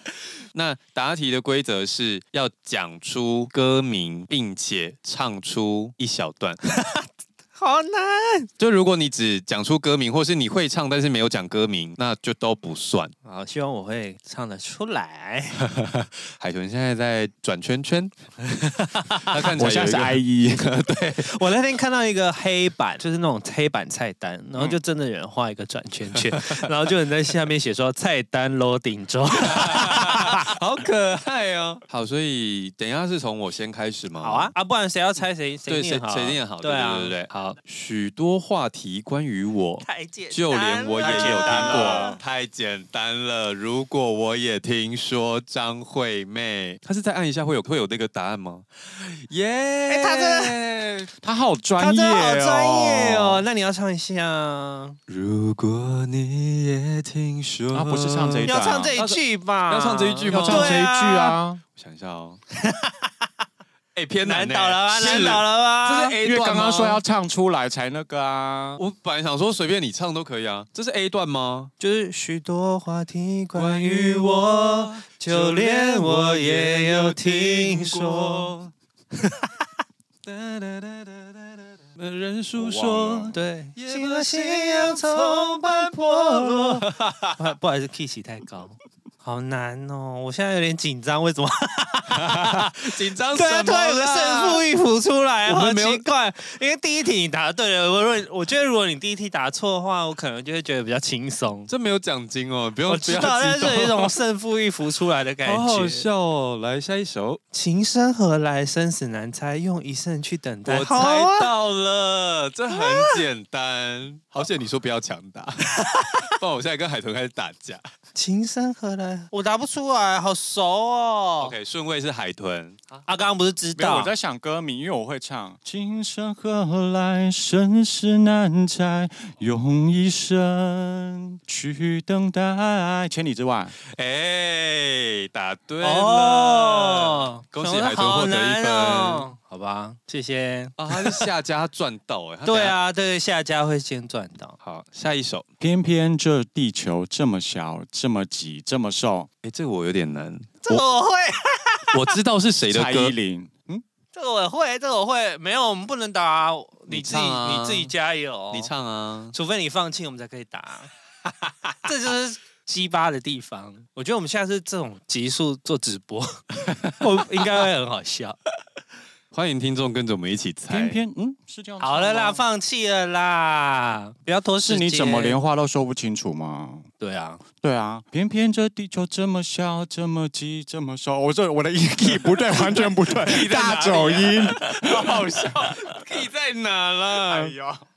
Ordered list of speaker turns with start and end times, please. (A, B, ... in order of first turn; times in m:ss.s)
0:00.5-0:06.6 A
0:06.7-0:08.5 B
0:08.6-0:13.1 A
0:13.2-0:15.6 B
0:15.6-0:18.2 A
0:18.5-0:19.4 B
0:19.1-0:21.3 A
0:19.5-0:20.7 C
0:21.2-0:30.5 B
0:29.5-0:34.5 A
0:34.2-0:37.6 B
0:35.7-0:51.1 A
0:39.8-0:42.2 B
0:41.0-0:42.2 C
0:49.9-0:50.6 B
0:51.2-0:53.4 C
0:51.8-0:55.0 B
0:55.1-1:00.8 A
0:57.7-0:59.0 C
0:58.4-1:01.4 B
1:00.3-1:01.6 C
1:01.8-1:02.4 A
1:02.6-1:03.1 B
1:04.0-1:07.0 A
1:04.2-1:06.2 B
1:06.2-1:08.8 C
1:08.8-1:11.7 A
1:11.8-1:18.5 B
1:13.6-1:18.7 A
1:19.2-1:19.5 B
1:20.2-1:27.4 A
1:22.6-1:23.4 C
1:23.3-1:41.7 B
1:32.1-1:34.6 A
1:35.5-1:36.0 A
1:41.7-1:44.1 A
1:42.9-1:46.1 B
1:45.4-1:47.4 A
1:47.5-1:51.5 B
1:50.6-1:57.8 A
1:52.7-1:53.2 B
1:55.8-1:56.2 B
1:58.2-2:01.5 B
2:01.4-2:03.0 A
2:03.1-2:04.1 B
2:03.8-2:13.8 C
2:13.9-2:19.3 A
2:15.8-2:21.3 B
2:20.8-2:22.8 A
2:22.5-2:24.6 B
2:24.6-2:25.5 A
2:25.6-2:29.3 C
2:29.4-2:30.8 A
2:30.6-2:32.0 B
2:31.9-2:33.2 A
2:32.7-2:33.8 C
2:34.1-2:38.7 B
2:36.9-2:37.9 A
2:38.5-2:39.4 A
2:39.3-2:40.9 B
2:41.8-2:48.4 B
2:46.7-2:47.4 A
2:49.3-2:51.0 A
2:50.7-2:52.4 C
2:51.8-2:55.4 B
2:54.7-2:56.8 C
2:57.0-2:57.4 B
2:57.6-3:05.6 C
3:02.7-3:05.5 B
3:03.2-3:07.7 A